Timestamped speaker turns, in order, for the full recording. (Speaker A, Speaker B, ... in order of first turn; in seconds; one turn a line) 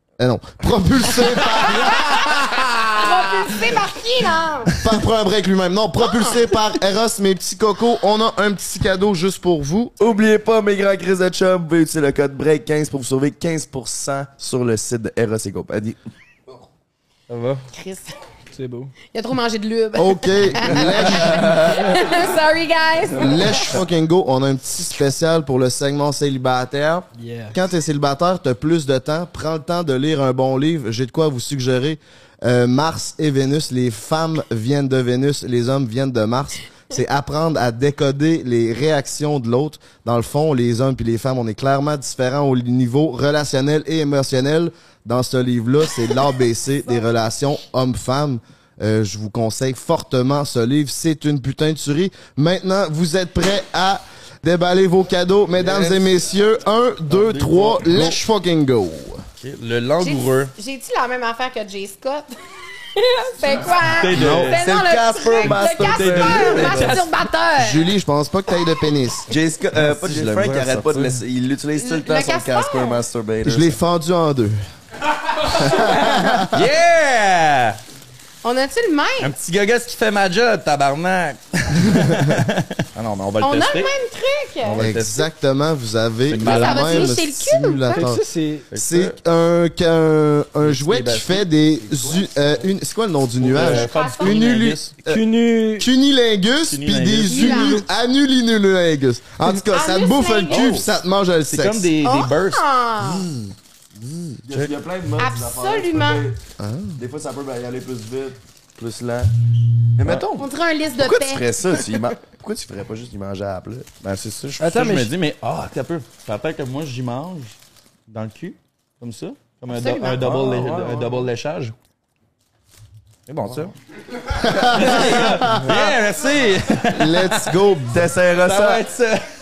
Speaker A: 0.2-2.3
Speaker B: 1.7-4.8
Speaker A: 4.8-9.9
Speaker B: 6.0-6.4
Speaker C: 10.0-16.0
Speaker D: 17.3-17.6
Speaker B: 17.7-18.2
Speaker E: 18.5-18.9
Speaker B: 19.1-23.8
Speaker A: 20.0-21.8
Speaker A: 23.2-59.2
Speaker E: 27.2-27.6
Speaker D: 55.6-56.0
Speaker D: 57.1-58.2
Speaker D: 59.4-60.5
Speaker B: 60.0-62.4
Speaker B: 63.0-67.9
Speaker D: 63.9-64.7
Speaker C: 64.1-67.1
Speaker A: 64.2-64.5
Speaker D: 65.9-67.0
Speaker A: 67.6-69.3
Speaker C: 69.3-73.8
Speaker D: 69.7-71.2
Speaker B: 71.8-73.0
Speaker A: 73.4-74.6
Speaker A: 75.4-76.6
Speaker D: 75.6-77.8
Speaker B: 78.4-79.3
Speaker D: 79.2-83.9
Speaker B: 83.4-84.8
Speaker D: 84.6-85.3
Speaker A: 84.8-95.2
Speaker D: 86.3-87.2
Speaker B: 86.4-88.1
Speaker E: 87.9-88.7
Speaker D: 88.7-89.2
Speaker D: 90.6-92.2
Speaker D: 93.4-95.0
Speaker B: 93.5-94.4
Speaker E: 95.0-95.9
Speaker A: 95.8-101.9
Speaker D: 96.7-97.7
Speaker B: 97.3-97.8
Speaker B: 99.7-100.7
Speaker D: 100.5-100.8
Speaker D: 101.5-103.4
Speaker B: 102.0-103.3
Speaker D: 104.0-104.7
Speaker C: 104.5-106.4
Speaker B: 105.2-106.3
Speaker A: 106.6-107.0
Speaker C: 107.0-109.3
Speaker C: 110.0-113.9
Speaker B: 110.4-111.5
Speaker D: 114.0-117.5
Speaker E: 114.6-115.1
Speaker D: 118.1-121.8
Speaker B: 119.7-120.2
Speaker C: 120.2-121.3
Speaker D: 123.3-123.7
Speaker A: 124.4-125.8
Speaker D: 124.7-127.5
Speaker A: 126.9-128.1
Speaker C: 127.9-128.8
Speaker D: 128.4-129.2